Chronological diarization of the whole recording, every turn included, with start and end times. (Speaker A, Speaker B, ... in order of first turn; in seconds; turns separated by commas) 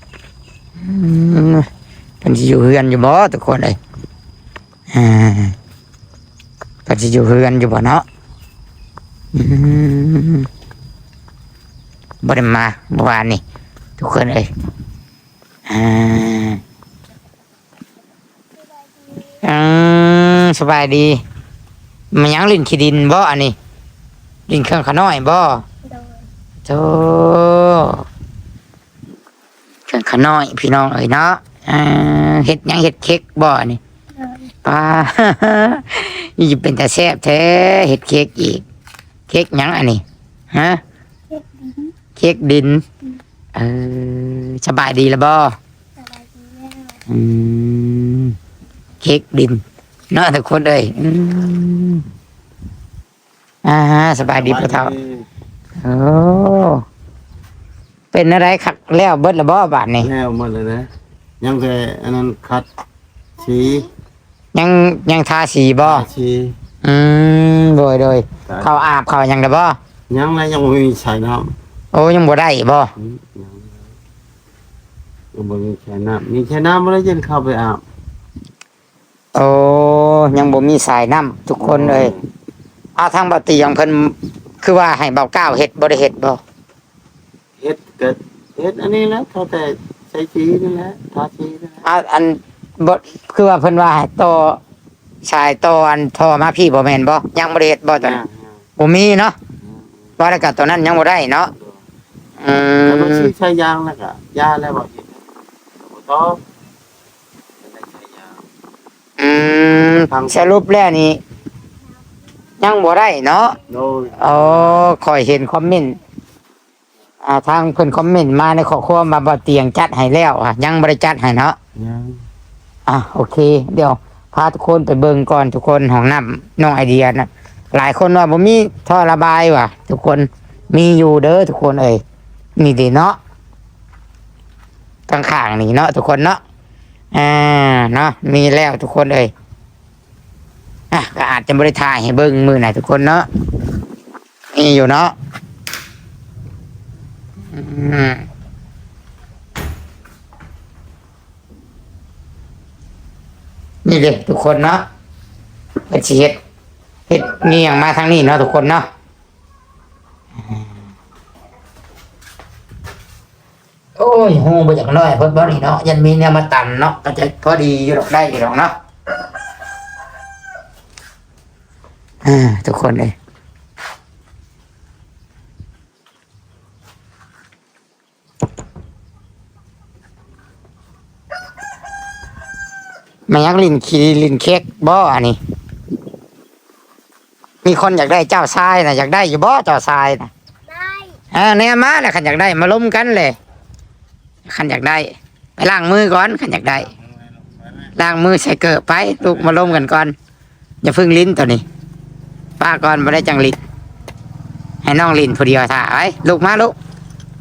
Speaker A: 0.8-1.7, Speaker A: 2.2-3.8, Speaker A: 4.9-5.5, Speaker A: 6.9-8.0, Speaker A: 9.3-10.5, Speaker A: 12.2-13.4, Speaker A: 14.0-14.5, Speaker A: 15.7-16.6, Speaker B: 18.9-19.4, Speaker A: 19.4-21.2, Speaker A: 22.1-23.6, Speaker A: 24.5-25.6, Speaker B: 25.8-26.3, Speaker A: 26.7-28.1, Speaker A: 29.9-33.8, Speaker B: 34.1-34.5, Speaker A: 34.6-38.6, Speaker A: 39.3-40.8, Speaker B: 41.3-41.9, Speaker A: 42.2-42.8, Speaker A: 43.5-45.6, Speaker B: 46.0-47.0, Speaker A: 47.1-48.4, Speaker A: 49.0-52.0, Speaker A: 53.6-54.9, Speaker C: 54.3-55.3, Speaker A: 55.8-56.9, Speaker A: 58.1-60.1, Speaker C: 60.0-60.9, Speaker C: 61.4-62.7, Speaker C: 63.4-63.9, Speaker A: 64.5-66.1, Speaker C: 65.8-66.6, Speaker A: 66.8-69.8, Speaker C: 70.1-71.6, Speaker A: 71.9-72.9, Speaker C: 73.0-73.9, Speaker C: 75.3-77.8, Speaker A: 79.3-82.1, Speaker C: 81.6-82.2, Speaker A: 83.0-86.4, Speaker C: 87.6-91.8, Speaker A: 91.8-94.6, Speaker A: 95.2-98.2, Speaker C: 98.0-98.5, Speaker A: 98.8-99.3, Speaker C: 99.6-100.3, Speaker A: 100.2-101.5, Speaker A: 102.4-103.3, Speaker C: 102.9-105.2, Speaker C: 105.8-106.5, Speaker C: 107.6-108.4, Speaker A: 109.2-111.2, Speaker C: 110.1-110.6, Speaker A: 112.6-113.6, Speaker C: 113.7-114.8, Speaker A: 114.2-116.0, Speaker A: 117.2-121.6, Speaker C: 121.8-122.2, Speaker A: 122.9-132.0, Speaker A: 132.6-133.2, Speaker A: 135.1-136.4, Speaker A: 137.1-139.3, Speaker A: 140.9-143.3, Speaker A: 144.5-145.1, Speaker A: 147.5-148.3, Speaker A: 153.8-154.8, Speaker A: 155.9-156.4, Speaker A: 157.1-158.9, Speaker A: 164.0-168.7, Speaker A: 172.2-173.1, Speaker A: 183.3-185.4, Speaker A: 187.6-190.3, Speaker B: 190.7-191.1, Speaker A: 191.3-193.4, Speaker A: 194.5-196.9, Speaker C: 197.0-197.9, Speaker A: 198.0-200.1, Speaker C: 199.3-199.9, Speaker A: 200.8-201.6, Speaker A: 202.6-203.6, Speaker A: 204.8-206.8